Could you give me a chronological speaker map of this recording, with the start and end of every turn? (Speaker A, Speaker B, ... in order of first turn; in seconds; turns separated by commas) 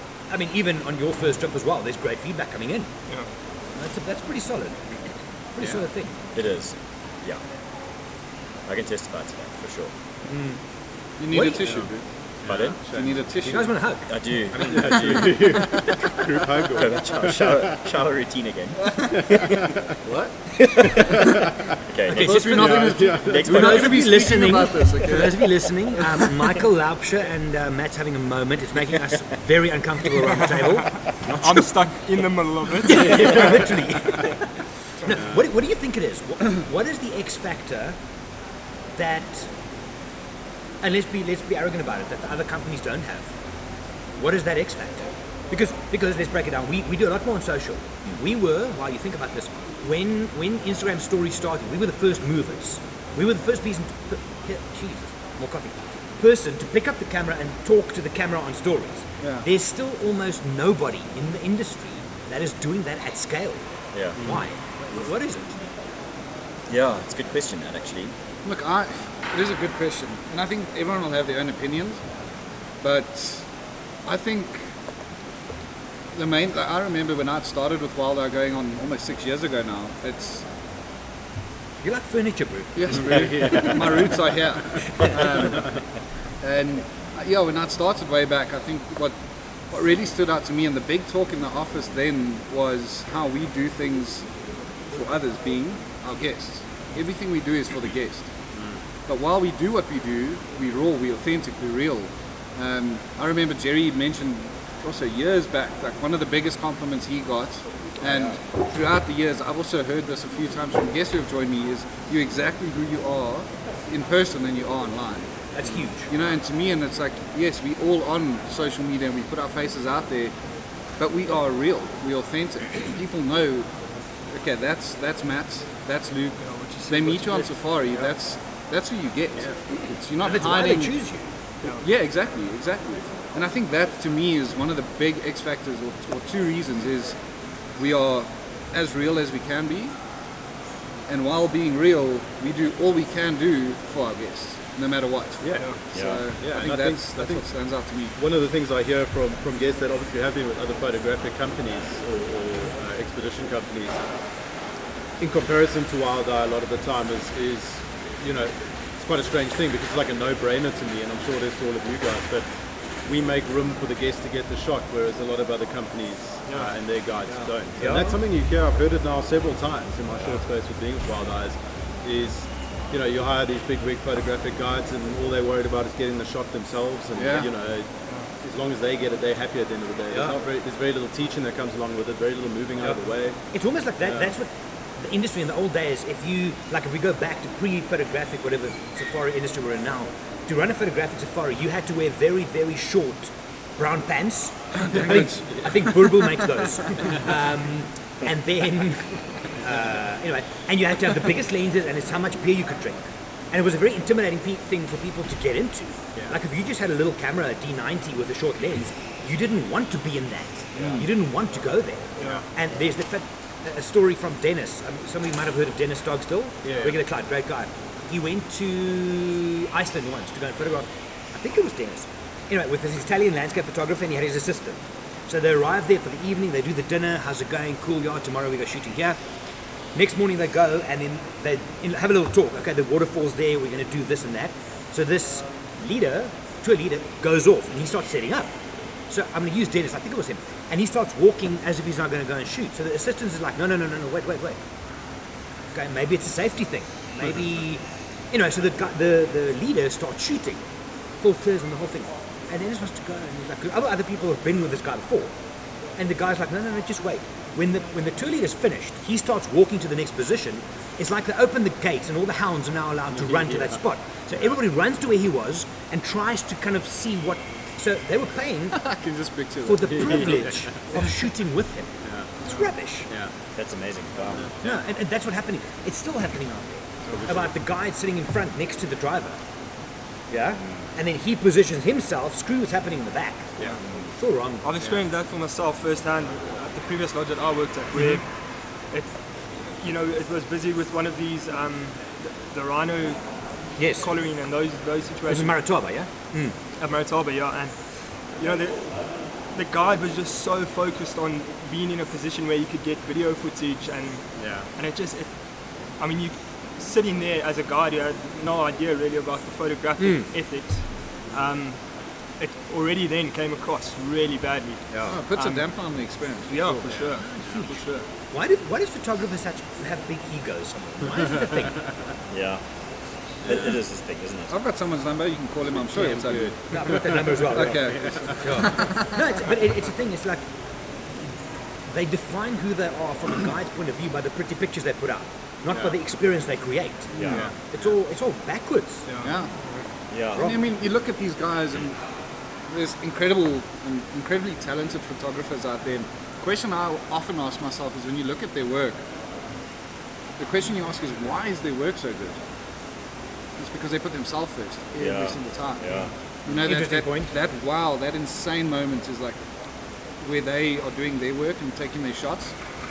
Speaker A: 0.3-2.9, Speaker A: 3.8-4.9, Speaker A: 5.6-6.2, Speaker B: 6.3-7.4, Speaker B: 8.7-9.9, Speaker A: 10.3-10.6, Speaker C: 11.2-11.9, Speaker A: 11.3-11.7, Speaker D: 11.6-13.2, Speaker B: 12.5-12.8, Speaker C: 12.9-13.8, Speaker A: 13.4-15.9, Speaker B: 14.1-15.9, Speaker D: 14.7-17.8, Speaker B: 16.7-19.6, Speaker D: 19.2-19.8, Speaker C: 20.0-20.4, Speaker A: 20.8-21.2, Speaker B: 21.9-24.0, Speaker A: 22.0-31.7, Speaker C: 22.2-26.3, Speaker D: 22.5-23.7, Speaker E: 31.3-33.8, Speaker A: 32.9-34.4, Speaker D: 33.2-33.5, Speaker A: 35.0-38.0, Speaker A: 39.0-39.5, Speaker A: 40.8-43.3, Speaker A: 44.1-63.6, Speaker B: 63.9-64.2, Speaker A: 64.2-65.6, Speaker B: 66.7-68.1, Speaker C: 68.5-72.0, Speaker C: 72.8-73.5, Speaker C: 74.1-74.7, Speaker C: 76.1-80.5, Speaker A: 81.8-83.2, Speaker C: 82.8-85.8, Speaker D: 82.9-85.6, Speaker C: 86.4-89.2, Speaker C: 89.7-94.2, Speaker C: 94.9-98.3, Speaker D: 98.5-98.8, Speaker C: 99.1-115.4, Speaker A: 115.5-116.1, Speaker C: 116.1-120.3, Speaker C: 121.0-123.7, Speaker C: 124.3-130.9, Speaker E: 126.4-128.1, Speaker A: 130.2-131.3, Speaker C: 131.8-137.2, Speaker C: 137.8-140.0, Speaker C: 141.1-148.1, Speaker D: 145.4-145.7, Speaker B: 145.9-146.2, Speaker D: 146.4-147.4, Speaker D: 148.1-154.0, Speaker D: 155.2-183.4, Speaker A: 167.8-168.1, Speaker C: 177.2-177.5, Speaker A: 183.5-229.2, Speaker C: 194.9-195.4, Speaker D: 210.8-211.0, Speaker D: 212.2-212.4, Speaker D: 216.6-217.0, Speaker A: 229.9-244.6, Speaker A: 245.7-250.6, Speaker A: 251.2-255.3, Speaker A: 256.0-268.8, Speaker D: 263.1-263.8, Speaker C: 268.8-270.4, Speaker A: 269.6-273.1, Speaker D: 269.9-270.7, Speaker D: 272.0-272.3, Speaker B: 273.5-274.5, Speaker D: 274.4-274.8, Speaker A: 274.6-279.4, Speaker D: 277.1-277.5, Speaker A: 280.3-283.6, Speaker B: 283.6-284.1, Speaker A: 284.1-284.7, Speaker E: 284.6-293.2, Speaker A: 293.8-294.1, Speaker E: 293.8-295.6, Speaker A: 295.3-296.6, Speaker E: 296.8-311.9, Speaker D: 304.4-304.7, Speaker A: 310.0-310.3, Speaker E: 312.4-315.7, Speaker C: 315.0-317.0, Speaker E: 316.5-318.1, Speaker D: 316.9-317.5, Speaker A: 317.4-321.8, Speaker B: 322.3-322.6, Speaker B: 323.4-324.5, Speaker C: 324.5-329.2, Speaker D: 325.8-328.6, Speaker A: 326.7-330.4, Speaker A: 331.9-339.1, Speaker B: 337.1-337.5, Speaker E: 339.1-339.8, Speaker C: 339.2-339.5, Speaker B: 340.1-340.5, Speaker A: 340.3-340.6, Speaker C: 340.4-342.0, Speaker C: 342.7-349.0, Speaker C: 350.4-352.4, Speaker C: 353.6-355.9, Speaker B: 355.0-356.1, Speaker C: 356.5-359.4, Speaker A: 356.6-357.3, Speaker C: 360.2-362.5